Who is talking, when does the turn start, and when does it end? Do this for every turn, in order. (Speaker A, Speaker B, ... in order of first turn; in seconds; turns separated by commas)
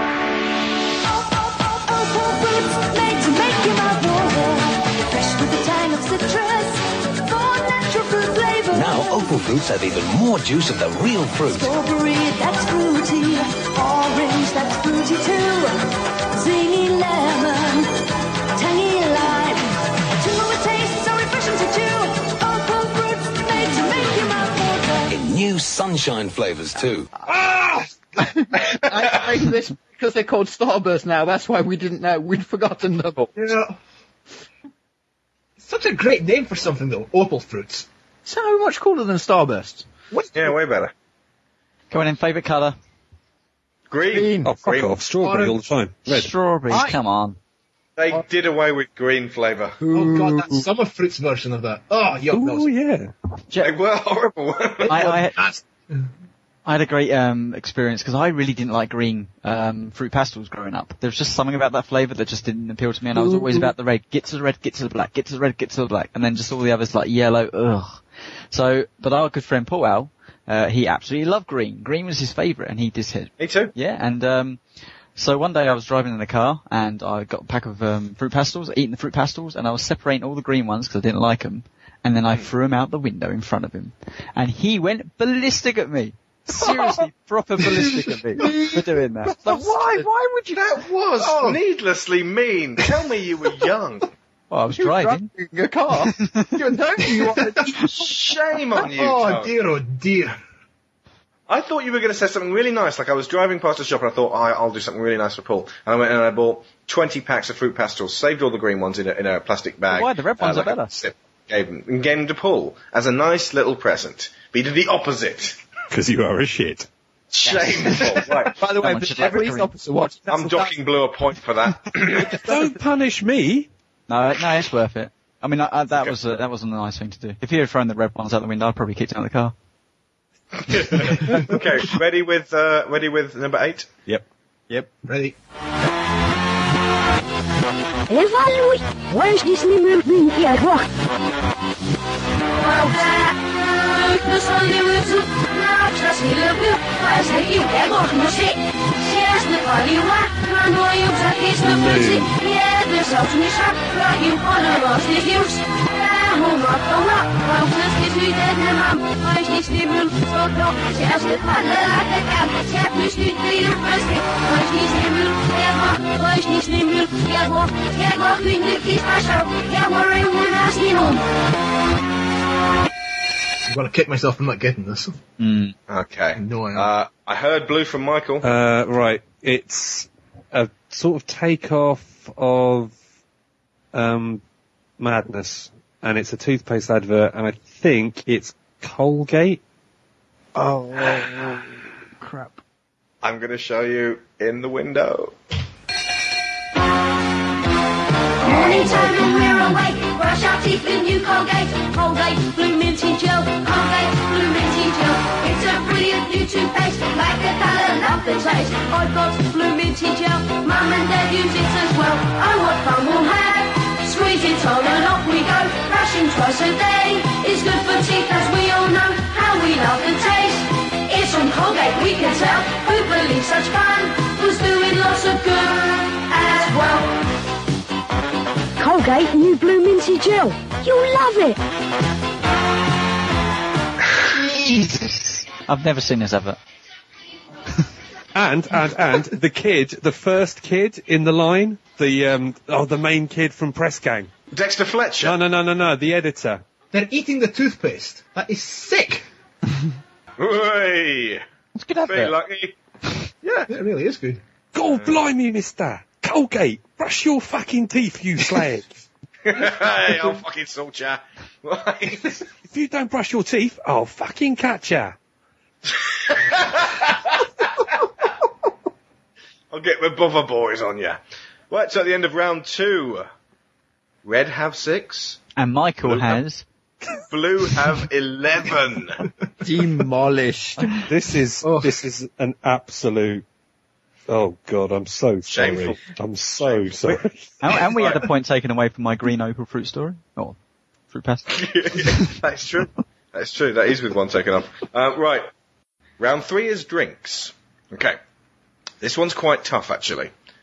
Speaker A: 1.6-8.9, Speaker B: 8.8-11.7, Speaker A: 11.5-15.7, Speaker A: 16.4-17.9, Speaker A: 18.6-19.6, Speaker A: 20.2-25.1, Speaker B: 25.1-27.0, Speaker C: 28.2-33.3, Speaker D: 33.3-33.7, Speaker D: 35.6-37.9, Speaker C: 38.2-39.9, Speaker D: 40.1-40.5, Speaker E: 40.3-40.9, Speaker F: 41.9-42.8, Speaker E: 43.9-44.9, Speaker C: 44.1-44.5, Speaker G: 44.4-46.3, Speaker D: 45.2-45.7, Speaker F: 46.0-47.4, Speaker C: 46.7-47.0, Speaker E: 48.0-49.8, Speaker C: 49.8-50.6, Speaker D: 49.9-52.7, Speaker G: 52.3-53.1, Speaker E: 53.6-55.0, Speaker F: 54.9-55.4, Speaker D: 54.9-56.0, Speaker F: 56.6-74.6, Speaker E: 73.4-73.7, Speaker F: 75.1-90.0, Speaker C: 88.4-90.0, Speaker E: 90.5-94.1, Speaker D: 91.2-91.6, Speaker F: 94.5-95.3, Speaker C: 94.7-97.9, Speaker F: 96.0-96.5, Speaker D: 97.1-97.5, Speaker E: 98.0-99.5, Speaker D: 98.8-100.3, Speaker E: 101.5-115.6, Speaker F: 109.9-111.0, Speaker G: 115.9-116.9, Speaker E: 117.3-118.5, Speaker F: 117.4-117.9, Speaker C: 118.5-120.7, Speaker F: 118.7-119.7, Speaker E: 120.3-122.3, Speaker G: 122.1-123.7, Speaker F: 124.1-129.5, Speaker E: 130.7-134.1, Speaker D: 135.0-135.3, Speaker H: 138.1-140.9, Speaker I: 142.6-171.2, Speaker G: 151.6-152.3, Speaker D: 173.7-175.1, Speaker F: 175.4-175.7, Speaker E: 175.9-178.5, Speaker D: 176.3-176.9, Speaker G: 178.4-182.9, Speaker G: 183.9-184.4, Speaker G: 185.0-189.6, Speaker C: 190.9-191.5, Speaker C: 192.2-192.6, Speaker E: 193.2-195.3, Speaker I: 198.4-227.2, Speaker F: 199.2-199.8, Speaker H: 228.8-231.6, Speaker F: 234.3-236.6, Speaker G: 238.3-244.3, Speaker E: 244.5-245.4, Speaker G: 245.2-246.6, Speaker D: 246.9-249.2, Speaker E: 250.4-251.4, Speaker F: 251.8-252.3, Speaker E: 252.0-252.7, Speaker E: 253.4-253.7, Speaker D: 253.7-254.4, Speaker G: 254.7-258.9, Speaker E: 254.8-255.2, Speaker E: 259.4-262.4, Speaker G: 262.7-265.1, Speaker E: 266.3-267.3, Speaker E: 269.7-271.2, Speaker E: 271.7-273.3, Speaker E: 274.2-275.4, Speaker F: 275.6-276.6, Speaker E: 276.0-276.4, Speaker E: 277.3-279.2, Speaker C: 279.6-281.0, Speaker G: 281.1-283.4, Speaker D: 281.6-281.9, Speaker G: 284.3-287.5, Speaker E: 285.5-287.2, Speaker F: 287.6-290.6, Speaker E: 288.0-288.2, Speaker F: 291.1-291.5, Speaker E: 291.5-295.5, Speaker E: 296.2-298.2, Speaker E: 299.0-300.3